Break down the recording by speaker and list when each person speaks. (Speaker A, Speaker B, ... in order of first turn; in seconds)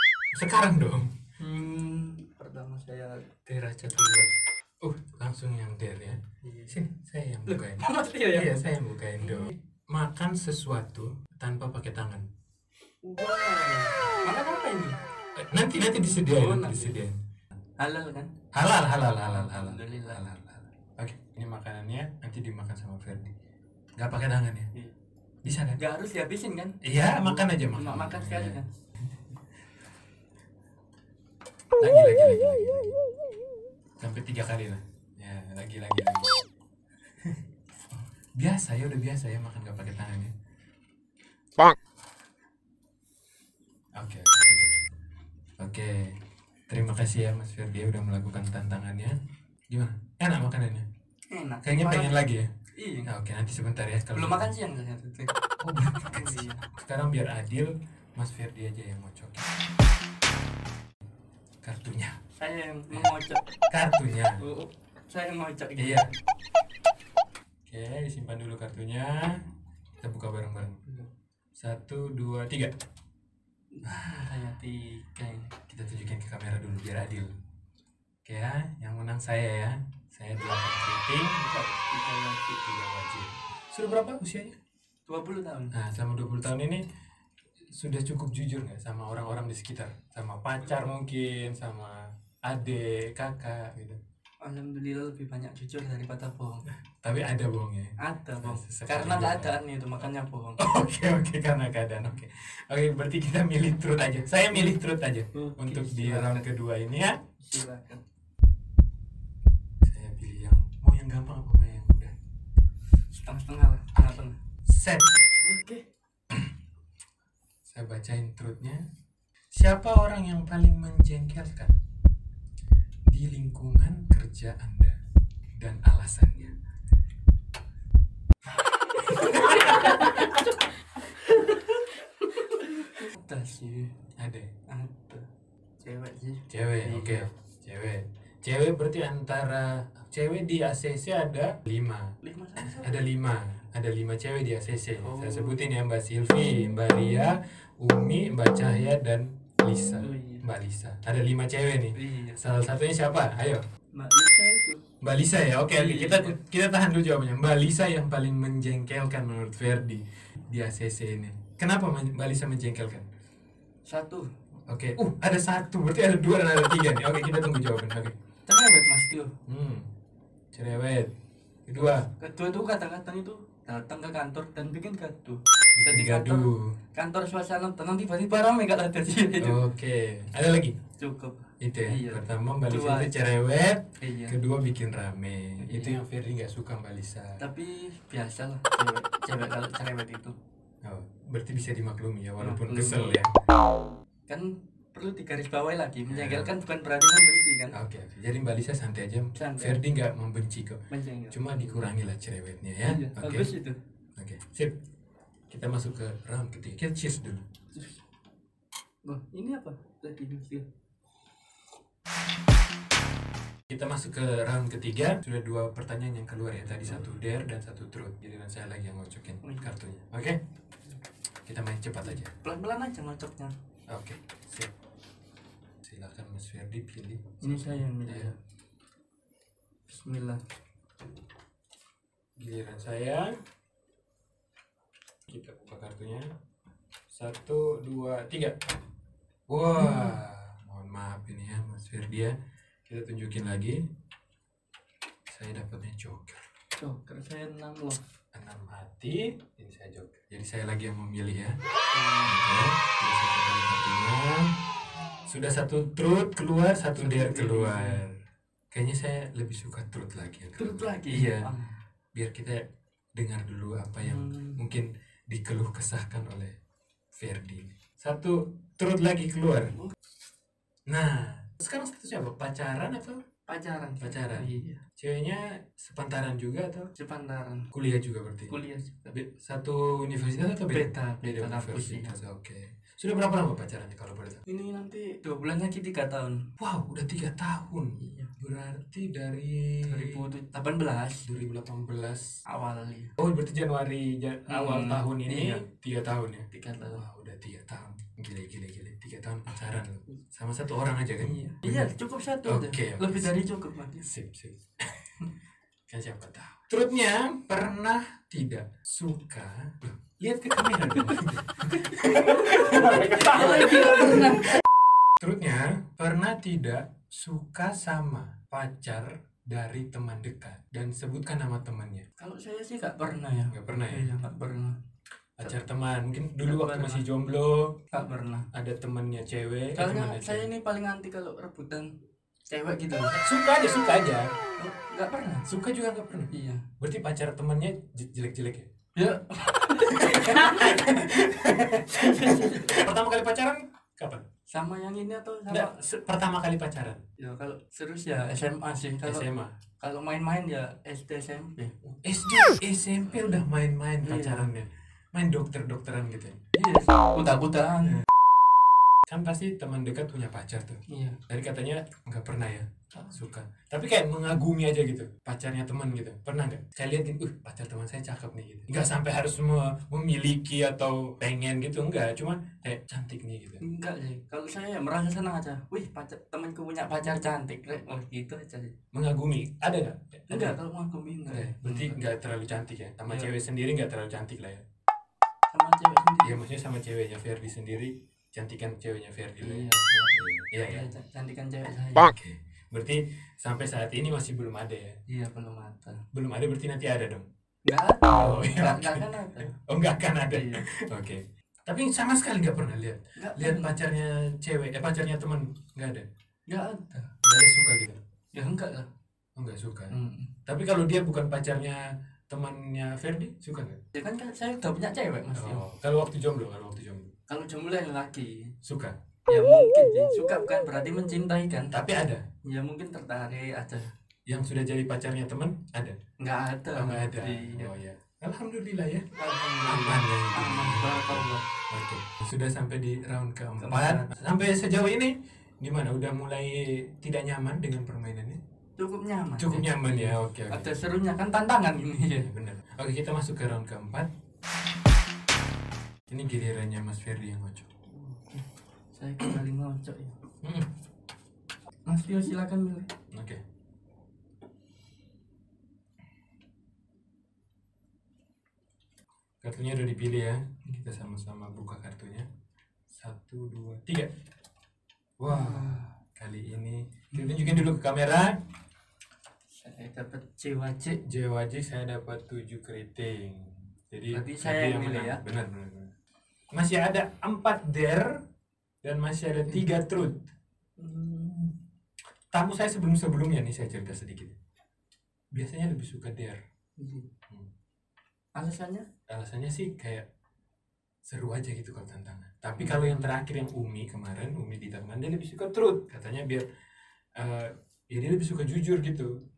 Speaker A: 0.3-1.1, 3.5-4.3, 4.8-12.2, 15.4-17.2, 18.5-23.3, 24.0-24.7, 25.4-25.8, 26.8-28.6, 31.8-33.0, 34.0-36.4, 38.4-40.3, 44.0-44.9, 45.6-46.2, 46.7-49.2, 49.7-50.9, 51.6-52.5, 53.1-54.5, 55.6-59.5, 61.6-62.2, 63.7-64.4, 65.8-66.1, 67.7-69.5, 70.0-70.8, 71.6-72.7, 73.8-74.3, 75.7-77.3, 78.2-81.8, 82.6-84.5, 85.7-86.8, 87.7-94.0, 97.0-99.6, 100.6-107.2, 109.8-112.1, 114.7-115.1, 117.7-118.8, 119.5-121.8, 123.1-125.0, 125.6-126.6, 129.2-130.3, 134.2-134.5, 136.5-153.6, 155.0-163.1, 164.7-168.1, 169.5-169.9, 170.5-171.1, 171.7-172.1, 175.8-176.8, 179.4-180.8, 181.6-187.4, 190.8-193.4, 196.1-196.6, 197.7-203.5, 204.2-204.8, 205.5-207.4, 213.7-220.4, 221.4-222.3, 223.9-224.7, 225.8-228.3, 232.4-233.3, 235.3-236.3, 237.1-238.6, 239.5-243.8, 245.3-246.5, 248.3-251.6, 252.3-254.5, 255.3-258.1, 258.7-261.5, 262.1-266.6, 267.2-269.8, 270.9-273.2, 274.0-276.9, 277.7-278.6, 279.1-284.4, 286.6-290.3, 291.2-292.4, 293.2-303.4, 304.0-305.3, 305.9-314.5, 315.2-322.1, 323.5-324.1, 325.4-327.8, 328.5-330.5, 333.1-334.3, 335.5-338.7, 339.8-344.2, 345.5-347.0, 349.0-349.5, 351.8-356.4, 359.1-373.6, 378.9-380.6, 381.3-384.6, 386.2-390.9, 392.0-395.0, 396.1-397.2, 398.1-406.1, 407.2-408.0, 409.4-409.9, 410.5-413.8, 415.3-417.1, 418.6-419.0, 421.7-422.2, 424.3-426.0, 426.7-429.1, 429.6-438.4, 439.4-440.8, 442.1-444.1, 446.1-447.7, 450.4-450.7, 453.1-453.4, 459.4-462.3, 462.9-464.1, 465.2-468.3, 471.1-475.9, 476.5-478.2, 478.8-480.3, 482.3-484.4, 485.3-486.4, 489.1-490.1, 491.1-496.5, 497.2-499.2
Speaker B: 1.4-3.4, 6.4-6.8, 7.5-8.7, 9.2-9.5, 13.0-15.0, 16.2-17.0, 17.8-18.3, 19.3-20.2, 25.8-28.7, 51.3-52.2, 52.8-53.1, 54.1-55.4, 56.0-56.6, 62.4-63.4, 64.4-66.1, 73.7-75.5, 81.9-82.6, 85.1-85.7, 94.4-96.6, 98.0-100.6, 104.5-104.8, 105.3-106.5, 107.4-108.0, 113.2-114.4, 115.4-115.8, 129.0-133.9, 134.7-135.2, 135.8-137.3, 142.2-143.1, 145.0-145.7, 150.0-150.4, 152.0-152.4, 153.9-154.8, 155.7-156.4, 163.9-164.3, 168.5-169.3, 171.7-179.6, 181.0-183.1, 184.0-184.4, 185.6-186.0, 187.4-190.3, 192.4-193.2, 194.3-197.8, 199.3-199.8, 200.9-201.9, 202.8-203.8, 209.1-210.7, 216.9-217.1, 219.4-219.7, 222.1-223.6, 227.4-228.3, 229.9-230.4, 239.8-240.2, 246.8-248.0, 251.9-252.5, 256.9-258.0, 260.6-261.8, 264.0-264.6, 273.5-274.8, 276.9-277.7, 278.5-279.2, 280.7-282.1, 284.5-286.4, 288.0-288.3, 289.8-291.3, 292.5-293.2, 294.5-295.6, 296.5-297.0, 301.2-304.1, 311.9-314.6, 322.2-324.8, 326.4-327.1, 327.9-328.5, 329.7-331.9, 332.5-333.1, 334.6-335.4, 336.3-336.6, 338.9-341.0, 341.9-342.9, 344.5-345.8, 347.2-349.3, 349.8-351.7, 354.0-354.5, 356.6-358.0, 360.9-361.2, 362.9-363.2, 373.6-378.7, 380.3-382.0, 383.1-383.3, 385.5-386.4, 389.4-392.1, 395.1-396.0, 397.7-399.5, 400.3-400.6, 403.2-403.8, 406.5-407.1, 408.3-408.9, 409.9-410.3, 413.9-415.6, 417.3-418.5, 419.3-421.8, 422.4-423.9, 426.2-427.8, 429.2-431.4, 433.6-434.2, 438.8-442.3, 447.9-450.2, 451.9-452.9, 465.3-465.9, 467.1-467.7, 469.6-471.0, 474.1-475.2, 480.8-481.5, 486.8-487.1, 488.4-488.9, 492.6-493.1